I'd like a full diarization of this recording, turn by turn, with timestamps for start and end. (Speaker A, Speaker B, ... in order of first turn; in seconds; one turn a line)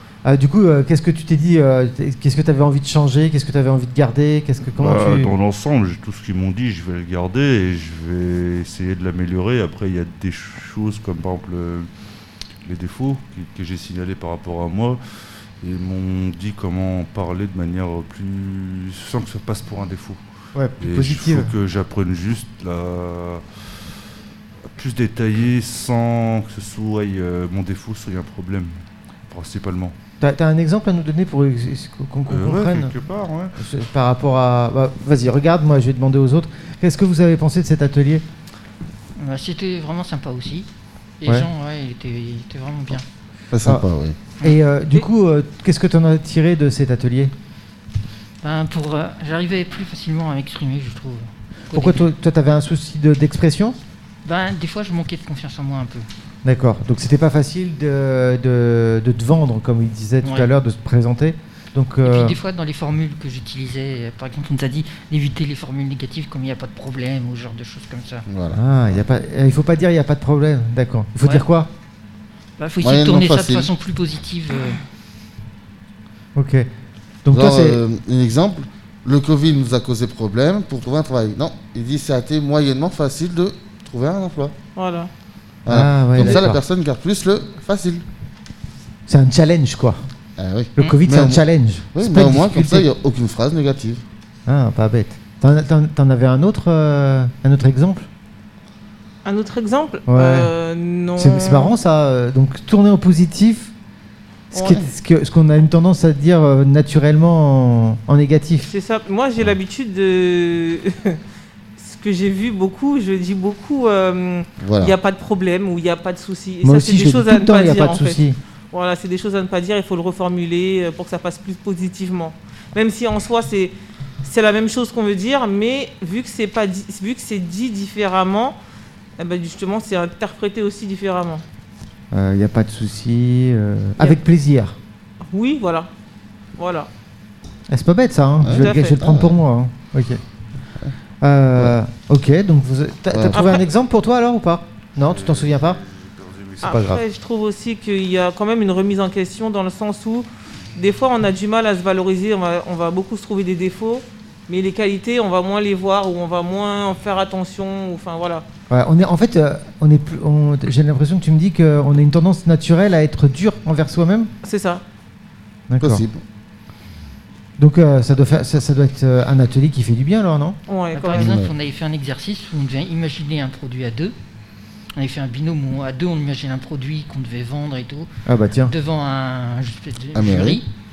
Speaker A: 0.2-5.3
Speaker B: 4.7-11.9
Speaker B: 12.6-15.0
Speaker B: 15.6-20.2
Speaker A: 20.5-21.5
Speaker B: 20.8-23.9
Speaker B: 24.7-29.9
Speaker A: 30.2-32.9
Speaker B: 32.3-33.6
Speaker A: 33.6-38.2
Speaker C: 39.1-40.7
Speaker C: 41.2-43.0
Speaker D: 43.5-44.2
Speaker A: 44.4-47.3
Speaker C: 48.4-52.1
Speaker A: 51.7-53.8
Speaker C: 54.2-56.1
Speaker A: 56.4-62.4
Speaker C: 60.2-60.5
Speaker C: 62.0-68.2
Speaker D: 68.3-68.6
Speaker A: 68.5-71.7
Speaker C: 72.6-74.8
Speaker D: 72.8-73.7
Speaker A: 76.3-76.7
Speaker A: 77.2-77.8
Speaker D: 77.3-84.5
Speaker E: 84.7-85.1
Speaker D: 85.6-88.0
Speaker A: 85.7-86.6
Speaker A: 89.1-90.0
Speaker D: 90.4-91.4
Speaker A: 90.8-92.9
Speaker D: 91.9-94.0
Speaker A: 94.5-98.1
Speaker E: 99.2-101.7
Speaker A: 100.1-100.5
Speaker A: 101.2-103.7
Speaker A: 104.5-108.7
Speaker E: 104.5-104.8
Speaker E: 108.6-111.2
Speaker E: 111.8-128.6
Speaker D: 114.6-115.0
Speaker A: 116.6-118.4
Speaker E: 129.2-131.4
Speaker A: 132.1-134.8
Speaker E: 135.2-135.9
Speaker E: 136.6-136.9
Speaker A: 137.7-140.2
Speaker D: 138.4-139.3
Speaker E: 138.4-139.0
Speaker A: 141.2-145.8
Speaker D: 143.1-143.4
Speaker E: 143.3-143.6
Speaker B: 145.0-146.8
Speaker E: 146.6-158.4
Speaker A: 146.6-147.0
Speaker A: 158.7-164.3
Speaker E: 164.4-164.8
Speaker A: 165.7-166.0
Speaker D: 165.8-166.2
Speaker A: 167.6-170.6
Speaker E: 170.7-171.3
Speaker C: 170.9-174.1
Speaker D: 171.1-171.5
Speaker C: 174.9-178.1
Speaker A: 178.2-178.7
Speaker C: 178.7-180.7
Speaker D: 180.1-180.6